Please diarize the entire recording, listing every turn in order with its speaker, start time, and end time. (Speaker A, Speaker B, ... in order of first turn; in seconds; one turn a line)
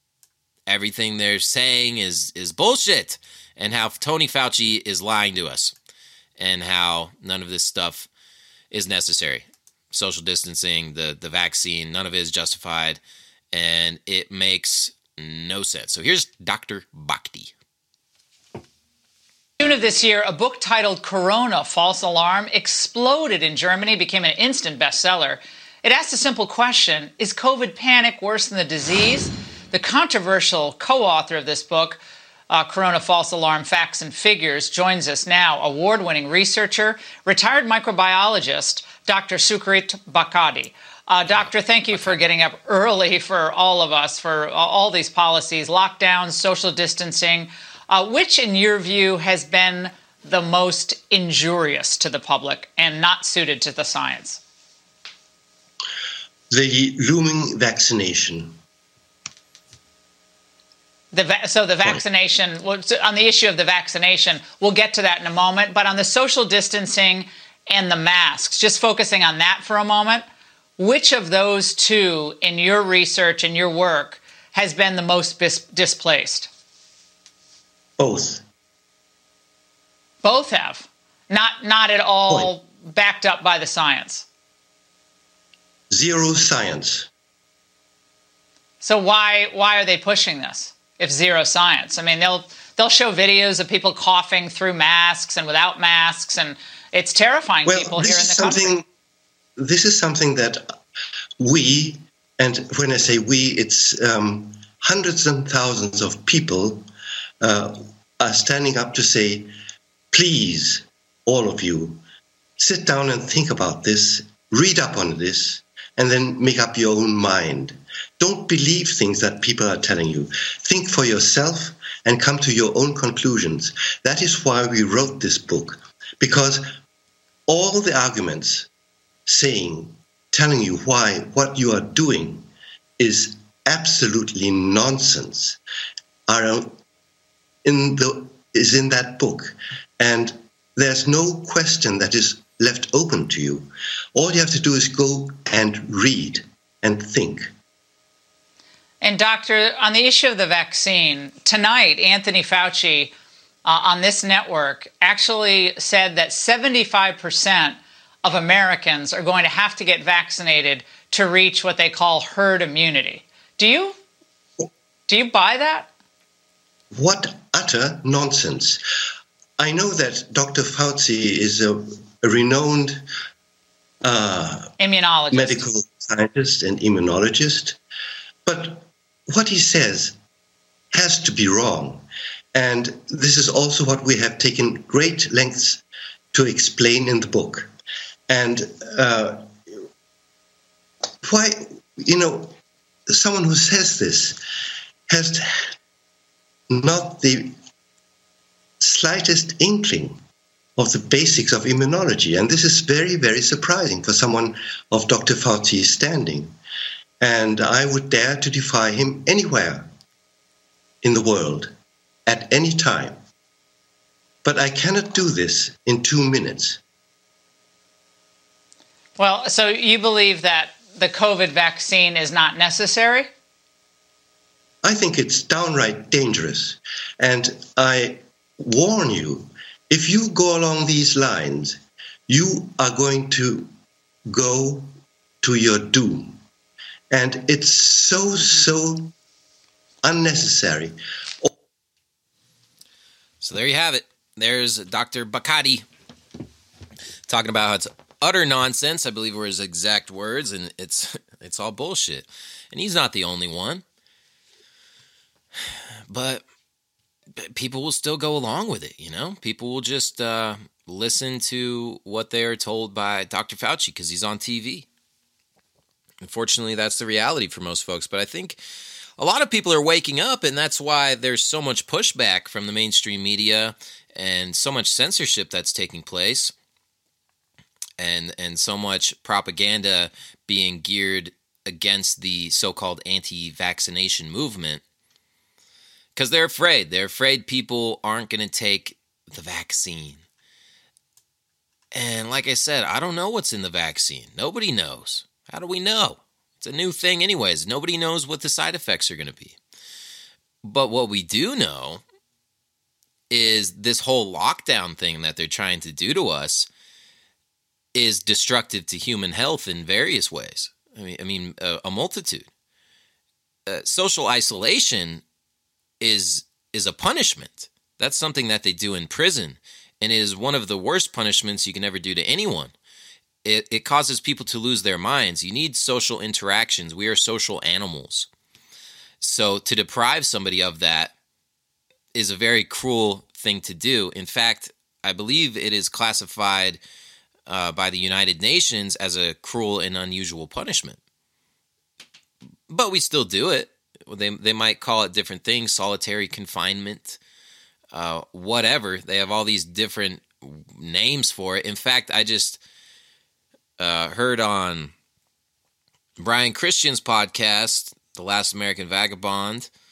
Speaker A: 0.7-5.7
Speaker A: 6.4-8.1
Speaker A: 8.7-13.0
Speaker A: 13.5-17.5
Speaker B: 19.6-54.4
Speaker C: 56.5-58.6
Speaker B: 61.1-70.2
Speaker B: 70.8-76.5
Speaker C: 78.0-78.4
Speaker B: 80.2-84.2
Speaker C: 85.9-87.1
Speaker B: 88.8-98.8
Speaker C: 97.6-98.8
Speaker C: 99.6-100.6
Speaker C: 101.4-106.8
Speaker C: 107.4-109.5
Speaker C: 110.1-112.0
Speaker C: 112.6-126.7
Speaker C: 127.5-128.7
Speaker C: 129.3-132.5
Speaker C: 133.0-135.6
Speaker C: 136.3-136.8
Speaker C: 137.6-147.5
Speaker B: 149.0-153.1
Speaker B: 153.7-163.9
Speaker B: 165.1-165.9
Speaker C: 166.9-168.8
Speaker C: 169.6-173.0
Speaker C: 174.0-174.7
Speaker B: 174.8-175.7
Speaker C: 175.3-177.8
Speaker C: 178.4-180.1
Speaker C: 180.9-187.7
Speaker C: 188.3-189.4
Speaker C: 191.2-192.5
Speaker C: 193.1-194.4
Speaker C: 195.1-195.6
Speaker C: 196.7-197.5
Speaker C: 198.8-200.2
Speaker C: 200.8-206.5
Speaker C: 207.2-209.9
Speaker C: 211.0-211.7
Speaker C: 212.3-213.2
Speaker C: 214.4-216.8
Speaker B: 219.2-223.3
Speaker C: 224.8-233.7
Speaker C: 234.3-234.9
Speaker C: 235.4-236.3
Speaker C: 237.1-239.1
Speaker C: 240.0-241.5
Speaker A: 243.4-245.8
Speaker A: 247.3-253.8
Speaker A: 256.1-256.4
Speaker A: 257.4-264.9
Speaker A: 266.2-268.6
Speaker A: 269.2-276.5
Speaker A: 278.0-284.8
Speaker A: 286.1-290.2
Speaker A: 291.9-299.5
Speaker A: 300.6-302.0
Speaker A: 303.3-306.7
Speaker A: 307.9-312.5
Speaker A: 313.7-315.2
Speaker A: 316.0-322.7
Speaker A: 323.4-328.3
Speaker A: 329.2-331.1
Speaker A: 332.1-336.8
Speaker A: 337.5-341.0
Speaker A: 342.7-347.2
Speaker A: 347.9-352.6
Speaker A: 353.8-354.9
Speaker A: 356.2-359.7